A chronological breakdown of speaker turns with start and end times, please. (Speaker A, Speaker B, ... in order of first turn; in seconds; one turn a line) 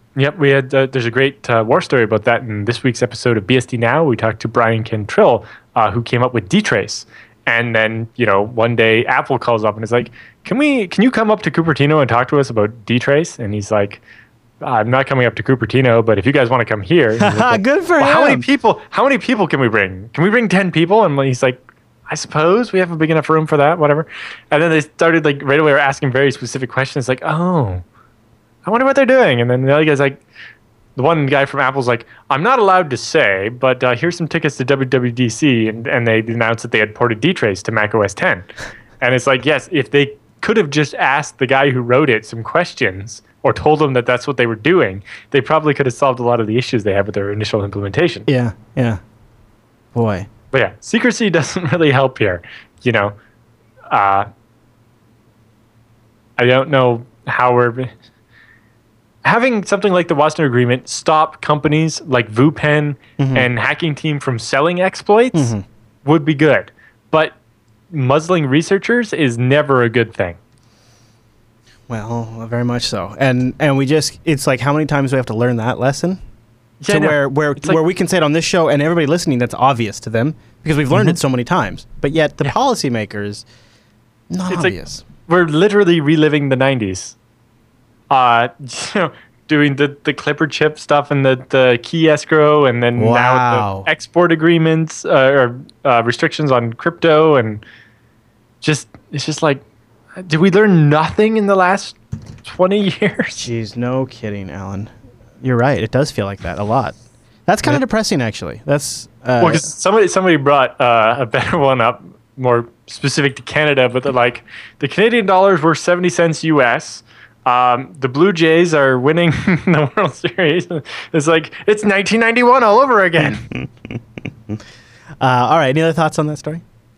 Speaker A: 0.1-14.0
Speaker A: 14.6-27.8
Speaker B: 17.2-18.4
Speaker A: 28.6-30.2
Speaker A: 30.9-48.3
Speaker B: 48.3-49.0
Speaker B: 49.9-50.3
Speaker A: 50.5-53.1
Speaker A: 53.9-54.3
Speaker A: 56.4-57.9
Speaker A: 59.2-65.5
Speaker B: 63.2-63.5
Speaker B: 65.3-65.6
Speaker A: 66.0-67.3
Speaker A: 67.9-70.4
Speaker B: 71.9-76.2
Speaker A: 76.8-77.8
Speaker B: 76.9-83.4
Speaker B: 84.3-85.0
Speaker A: 84.5-87.1
Speaker A: 88.1-97.6
Speaker B: 93.0-93.9
Speaker A: 98.6-99.6
Speaker A: 100.2-103.5
Speaker B: 103.4-107.0
Speaker B: 107.5-109.7
Speaker A: 109.4-123.5
Speaker B: 123.2-124.6
Speaker B: 125.2-126.6